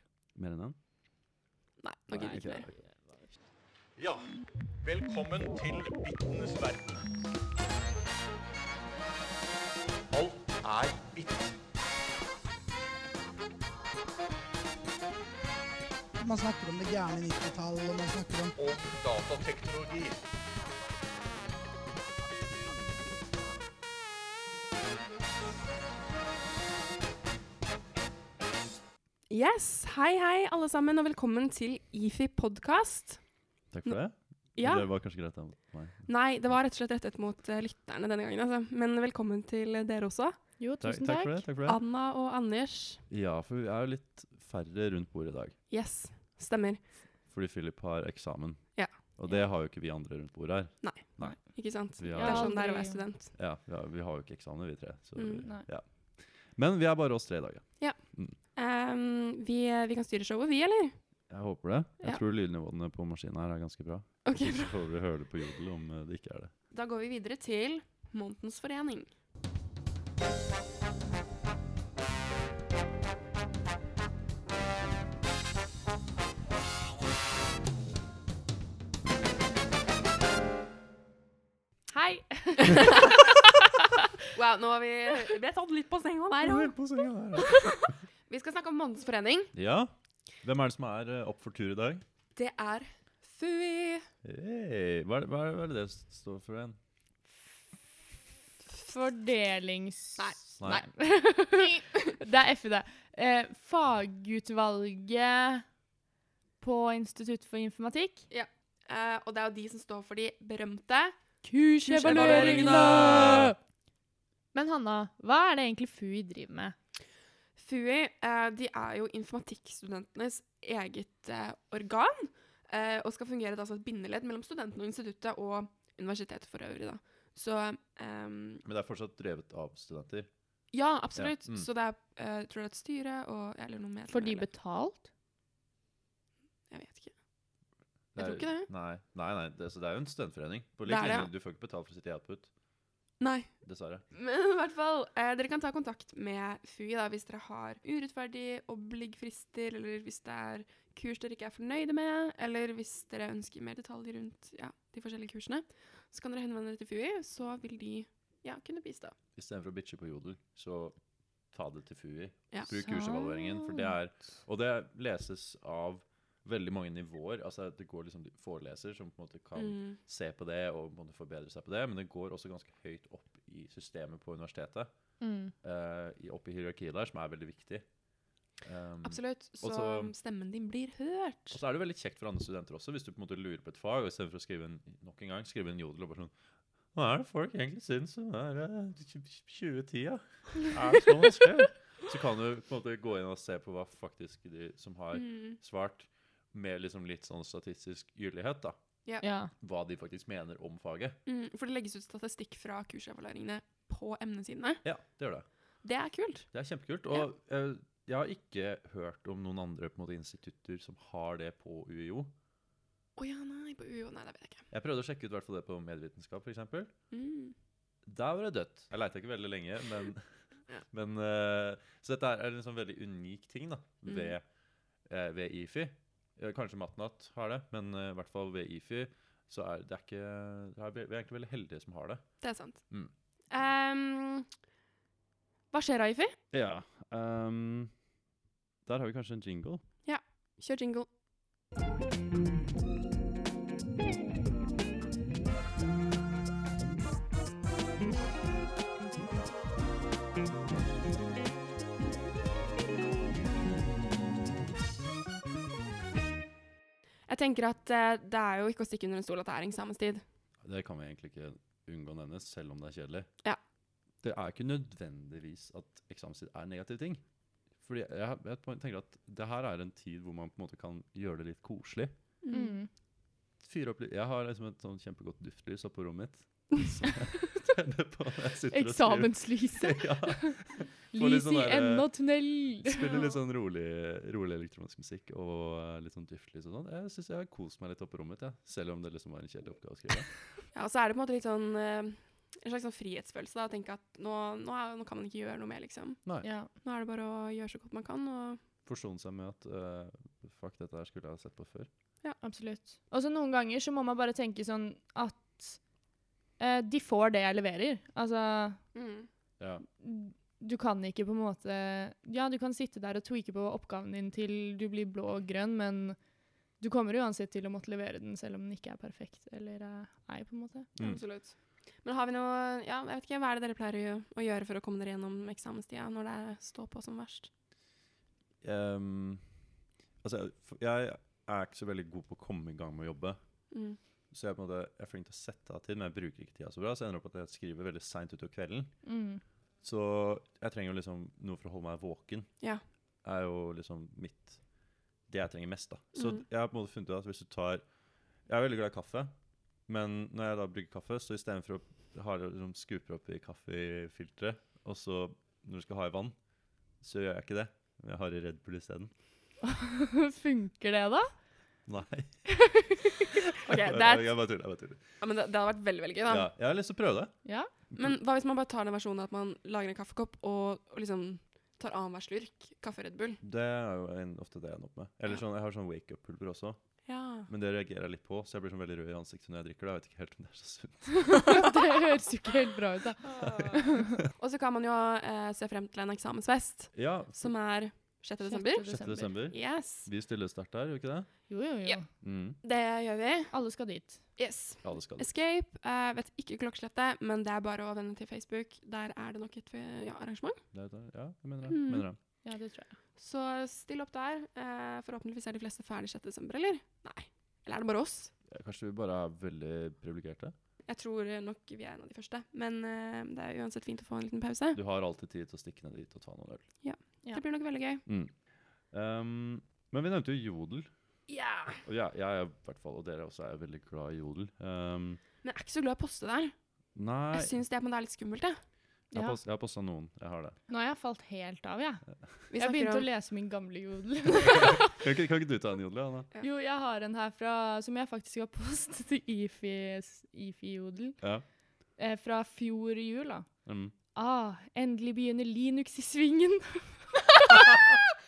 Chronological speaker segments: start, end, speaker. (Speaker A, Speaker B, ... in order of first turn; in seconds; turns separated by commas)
Speaker A: 0.3-0.8, Speaker B: 1.8-2.7, Speaker A: 2.1-2.8, Speaker C: 4.0-7.1, Speaker C: 10.1-11.6, Speaker D: 16.2-18.5, Speaker C: 18.6-20.2, Speaker B: 29.3-33.2, Speaker A: 33.7-36.1, Speaker B: 34.5-34.9, Speaker B: 36.1-40.5, Speaker E: 40.6-41.4, Speaker A: 40.8-41.8, Speaker B: 41.6-43.0, Speaker A: 43.1-45.5, Speaker B: 45.7-46.8, Speaker A: 47.3-51.4, Speaker B: 48.7-49.4, Speaker B: 50.8-53.3, Speaker A: 52.0-52.6, Speaker E: 52.1-53.0, Speaker A: 53.3-58.4, Speaker B: 55.1-55.5, Speaker B: 58.5-61.0, Speaker A: 61.3-66.5, Speaker B: 64.2-64.8, Speaker B: 66.7-69.1, Speaker E: 81.9-83.2, Speaker B: 82.7-83.4, Speaker B: 84.3-86.8, Speaker A: 86.4-88.0, Speaker B: 87.4-89.5, Speaker A: 89.5-92.0, Speaker B: 92.4-94.1, Speaker A: 94.2-96.8, Speaker E: 98.7-105.7, Speaker B: 100.2-100.9, Speaker A: 100.6-100.8, Speaker B: 101.5-102.2, Speaker E: 106.6-108.3, Speaker B: 108.3-111.2, Speaker E: 111.4-113.6, Speaker B: 111.8-113.4, Speaker A: 112.0-113.5, Speaker E: 114.5-116.8, Speaker B: 117.6-128.6, Speaker A: 128.7-130.3, Speaker B: 130.7-134.5, Speaker A: 131.2-131.7, Speaker E: 134.1-135.1, Speaker B: 136.7-137.1, Speaker A: 138.2-142.5, Speaker B: 138.2-138.7, Speaker B: 140.8-141.3, Speaker B: 143.2-143.5, Speaker A: 143.7-144.0, Speaker B: 144.1-159.2, Speaker A: 159.4-160.9, Speaker A: 161.5-174.9, Speaker E: 162.7-163.9, Speaker B: 169.6-170.0, Speaker E: 175.2-175.5, Speaker A: 175.6-177.8, Speaker A: 178.6-180.1, Speaker B: 179.0-181.6, Speaker A: 181.5-186.3, Speaker A: 186.9-198.8, Speaker B: 195.1-195.6, Speaker E: 199.2-199.5, Speaker A: 199.6-201.2, Speaker B: 201.2-204.8, Speaker A: 204.8-205.4, Speaker B: 205.8-206.5, Speaker A: 206.5-212.3, Speaker B: 213.2-214.7, Speaker A: 214.7-216.9, Speaker B: 217.1-217.6, Speaker A: 218.1-220.3, Speaker A: 220.9-224.4, Speaker B: 224.1-224.3, Speaker A: 225.1-232.2, Speaker B: 232.4-232.8, Speaker B: 233.5-234.5, Speaker B: 235.7-236.4, Speaker A: 236.5-237.9, Speaker A: 238.9-239.8, Speaker B: 240.1-241.1, Speaker B: 257.3-260.2, Speaker A: 260.6-263.3, Speaker A: 264.2-267.2, Speaker A: 267.8-272.1, Speaker B: 272.4-272.8, Speaker E: 272.5-272.9, Speaker A: 273.6-282.1, Speaker E: 278.7-280.6, Speaker E: 281.1-283.1, Speaker A: 282.8-290.3, Speaker B: 290.7-298.6, Speaker E: 296.4-296.7, Speaker A: 298.9-301.9, Speaker E: 302.4-305.8, Speaker E: 306.6-308.8, Speaker B: 308.9-309.3, Speaker A: 309.6-309.8, Speaker E: 310.0-316.2, Speaker E: 316.8-320.9, Speaker A: 320.9-321.2, Speaker B: 321.0-327.5, Speaker A: 328.6-329.4, Speaker A: 330.2-333.4, Speaker B: 333.7-334.0, Speaker A: 334.3-338.9, Speaker E: 339.0-339.4, Speaker A: 339.8-342.5, Speaker A: 343.2-344.6, Speaker A: 345.3-347.8, Speaker B: 346.1-346.4, Speaker A: 348.5-349.3, Speaker A: 349.9-356.3, Speaker A: 357.0-359.1, Speaker E: 359.6-361.3, Speaker A: 361.9-362.4, Speaker E: 362.5-363.1, Speaker B: 363.5-364.3, Speaker A: 363.6-365.0, Speaker B: 365.2-366.5, Speaker A: 366.3-367.3, Speaker E: 367.4-367.7, Speaker B: 368.0-373.4, Speaker A: 373.4-376.8, Speaker B: 377.1-377.5, Speaker A: 377.5-381.6, Speaker E: 381.3-384.2, Speaker B: 383.2-390.1, Speaker A: 386.9-387.5, Speaker E: 388.4-389.3, Speaker A: 388.8-391.3, Speaker E: 391.5-392.1, Speaker A: 392.2-392.6, Speaker B: 392.6-393.5, Speaker E: 393.5-394.2, Speaker B: 394.4-400.6, Speaker A: 394.8-395.3, Speaker A: 400.7-402.2, Speaker B: 401.6-402.1, Speaker E: 402.4-402.9, Speaker B: 403.2-408.3, Speaker A: 408.5-410.5, Speaker B: 410.9-414.8, Speaker A: 414.7-416.6, Speaker B: 416.8-418.0, Speaker A: 418.1-418.3, Speaker A: 418.9-420.9, Speaker B: 421.3-421.8, Speaker A: 421.8-425.2, Speaker B: 425.4-426.5, Speaker A: 426.9-427.5, Speaker B: 427.3-428.6, Speaker E: 429.1-429.4, Speaker A: 429.1-430.6, Speaker E: 430.7-432.0, Speaker B: 432.5-433.1, Speaker E: 432.5-434.9, Speaker A: 434.6-436.3, Speaker E: 436.4-441.2, Speaker E: 442.0-443.5, Speaker A: 443.6-443.9, Speaker E: 444.1-447.6, Speaker B: 447.5-447.9